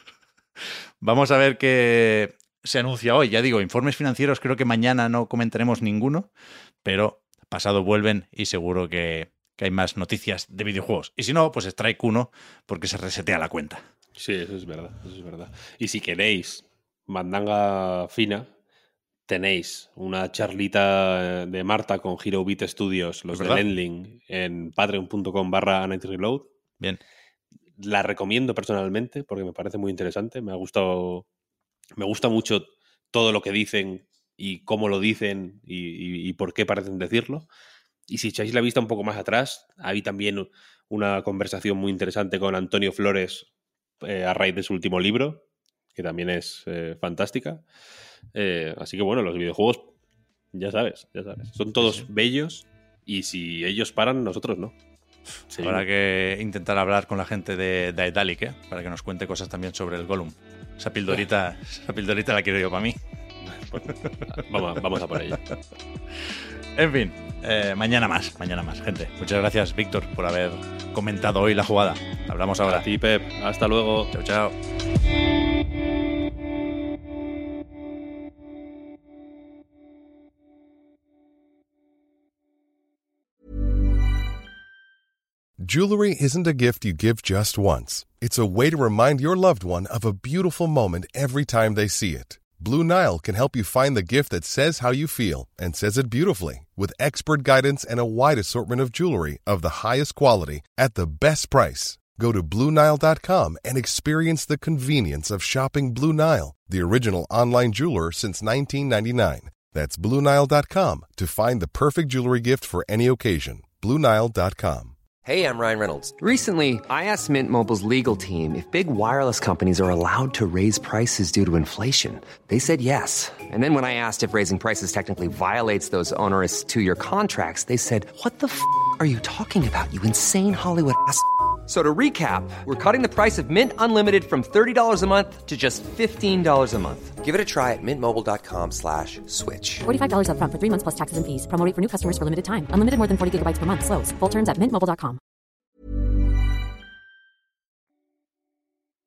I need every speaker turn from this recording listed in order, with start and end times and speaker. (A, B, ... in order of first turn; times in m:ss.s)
0:01.0-0:06.3 A
0:06.8-0:13.8 A
0:14.2-0:18.5 B
0:19.3-0:26.5 B
0:23.3-0:23.6 A
0:27.8-0:31.3 B
0:32.0-0:37.5 B
0:38.1-0:43.5 B
0:44.0-0:47.6 B
0:48.4-0:49.9 B
0:50.5-0:54.8 B
0:55.5-0:55.8 B
0:55.6-1:03.0 A
1:03.5-1:05.4 B
1:06.8-1:12.9 A
1:12.6-1:14.1 B
1:14.1-1:14.6 A
1:25.6-1:55.0 C
1:55.2-1:56.2 D
1:56.2-2:17.2 E
2:17.2-2:19.8 D
2:19.8-2:25.2 F